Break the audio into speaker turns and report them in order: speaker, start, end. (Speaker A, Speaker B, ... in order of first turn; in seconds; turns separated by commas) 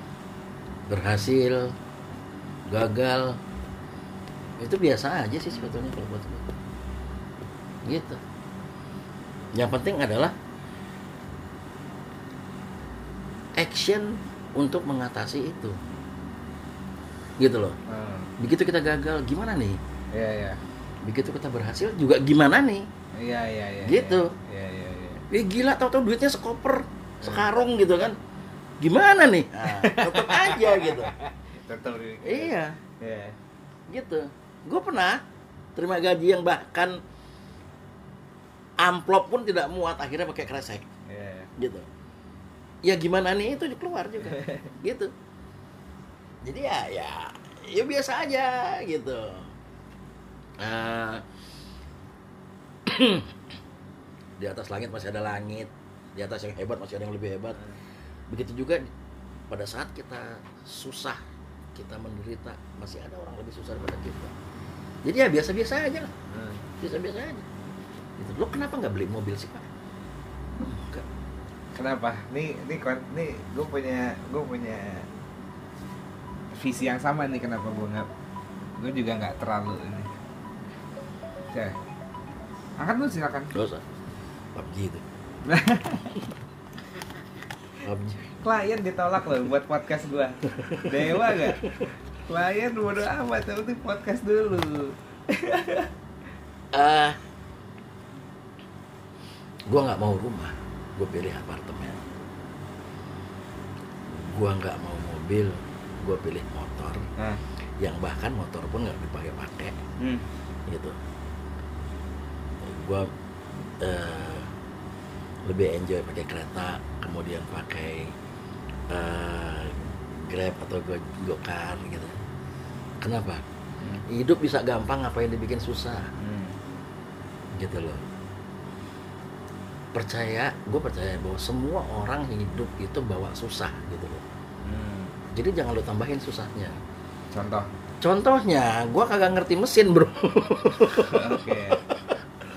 Speaker A: 0.9-1.7, Speaker A: 2.7-3.4, Speaker A: 4.6-6.5, Speaker A: 7.8-8.2, Speaker A: 9.6-10.3, Speaker A: 13.6-15.8, Speaker A: 17.4-17.8, Speaker B: 17.9-18.3, Speaker A: 18.4-19.8, Speaker B: 20.1-20.6, Speaker A: 21.0-22.9, Speaker B: 23.2-25.2, Speaker A: 23.9-24.3, Speaker A: 25.3-28.2, Speaker B: 27.2-27.5, Speaker A: 28.8-31.1, Speaker B: 29.6-33.4, Speaker A: 32.2-32.8, Speaker A: 33.9-35.2, Speaker A: 35.8-37.0, Speaker A: 38.8-40.9, Speaker B: 41.1-41.5, Speaker A: 41.6-41.9, Speaker A: 42.8-45.1, Speaker B: 44.2-44.7, Speaker A: 46.4-49.5, Speaker A: 50.6-51.2, Speaker A: 52.9-53.3, Speaker A: 54.4-57.6, Speaker A: 58.3-58.9, Speaker A: 59.5-61.2, Speaker A: 61.8-64.3, Speaker A: 65.0-66.1, Speaker B: 66.3-66.7, Speaker A: 66.8-67.5, Speaker A: 68.2-69.7, Speaker A: 70.6-71.0, Speaker B: 71.7-75.1, Speaker B: 76.5-78.1, Speaker B: 78.8-80.1, Speaker B: 82.8-83.5, Speaker A: 83.5-83.8, Speaker A: 84.5-85.0, Speaker B: 85.4-86.2, Speaker A: 87.8-88.3, Speaker B: 88.4-91.6, Speaker A: 90.5-91.9, Speaker B: 92.2-95.9, Speaker A: 96.7-97.2, Speaker A: 99.7-102.0, Speaker A: 104.1-107.1, Speaker B: 107.2-107.4, Speaker A: 107.8-109.8, Speaker B: 110.0-110.3, Speaker A: 110.7-111.0, Speaker A: 112.6-113.1, Speaker A: 113.8-114.5, Speaker A: 115.5-118.1, Speaker A: 118.9-122.2, Speaker A: 123.0-123.4, Speaker B: 123.8-124.0, Speaker A: 124.1-126.1, Speaker B: 126.2-126.6, Speaker A: 127.6-128.0, Speaker A: 129.9-134.2, Speaker B: 134.6-135.1, Speaker A: 135.3-136.8, Speaker B: 137.3-137.7, Speaker A: 138.0-142.0, Speaker B: 141.0-141.8